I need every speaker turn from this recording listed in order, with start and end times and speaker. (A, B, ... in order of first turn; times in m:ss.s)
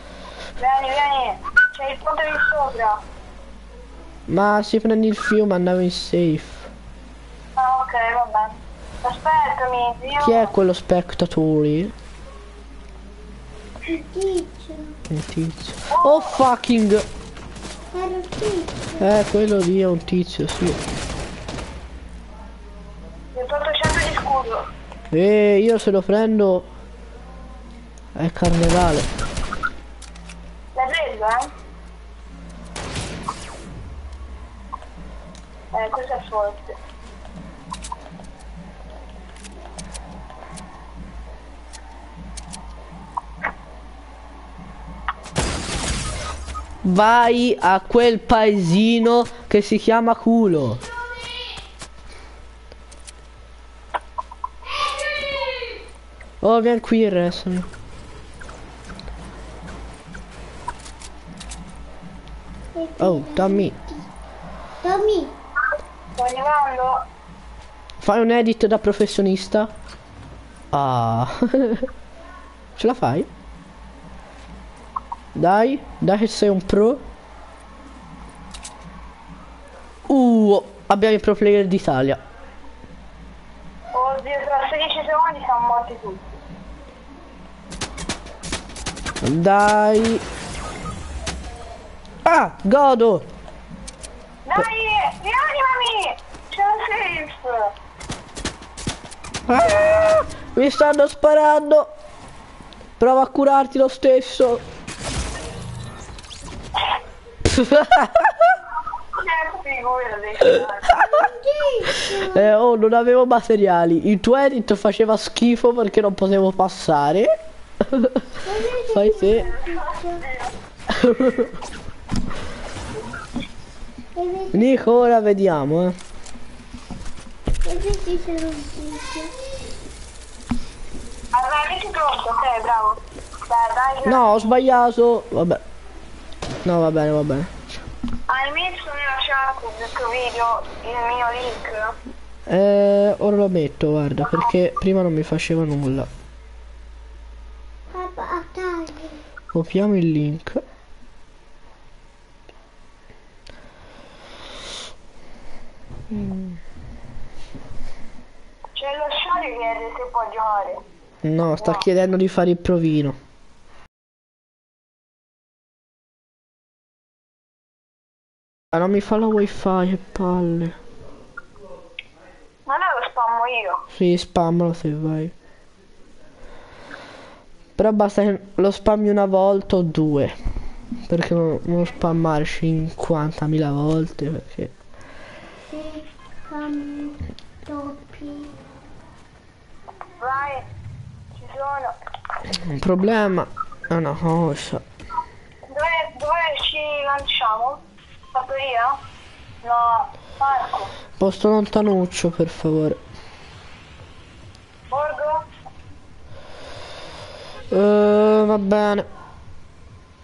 0:00.6-0:03.0 A
0:04.3-0:06.7 B
0:07.6-0:10.5 A
0:10.2-0:11.9 B
0:13.9-0:15.0 C
0:15.1-0:17.0 B
0:15.9-0:16.4 A
0:17.9-0:19.0 C
0:19.0-0:20.8 B
0:23.3-0:24.6 A
0:25.1-0:26.7 B
0:28.1-0:29.1 B
0:30.7-0:31.5 A
0:35.7-0:36.8 A
0:46.8-0:50.8 B
0:56.4-0:57.7 B
1:02.7-1:04.0 C
1:03.0-1:03.7 B
1:04.8-1:05.3 C
1:06.2-1:07.0 A
1:08.0-1:09.7 B
1:10.7-1:11.9 B
1:12.8-1:13.3 B
1:15.4-1:17.0 B
1:20.1-1:22.2 B
1:23.9-1:26.2 A
1:29.2-1:30.2 B
1:32.2-1:33.3 B
1:34.4-1:37.7 A
1:39.5-1:41.9 B
1:43.0-1:44.6 B
1:47.4-1:48.6 B
1:49.1-1:51.0 A
1:51.0-1:52.4 C
1:51.9-1:58.3 B
1:58.4-2:00.2 C
1:58.9-1:59.5 B
1:59.3-2:00.5 A
2:00.9-2:01.6 B
2:04.2-2:04.6 C
2:04.5-2:06.0 B
2:07.6-2:09.3 C
2:11.3-2:14.5 A
2:14.0-2:15.6 B
2:16.6-2:17.7 B
2:18.3-2:22.0 A
2:22.5-2:26.1 B
2:27.9-2:29.2 C
2:29.5-2:30.6 B
2:36.1-2:36.6 B
2:38.8-2:40.8 A
2:41.2-2:43.2 B
2:48.7-2:50.8 B
2:52.6-2:53.8 A
2:53.9-2:55.3 B
2:57.8-3:00.4 B
3:01.1-3:04.7 B
3:05.7-3:08.6 C
3:10.2-3:10.7 A
3:11.4-3:11.9 A
3:12.5-3:14.8 B
3:15.7-3:17.8 A
3:18.3-3:19.0 A
3:19.6-3:20.9 A
3:21.2-3:23.0 B
3:24.9-3:25.4 A
3:27.7-3:29.0 B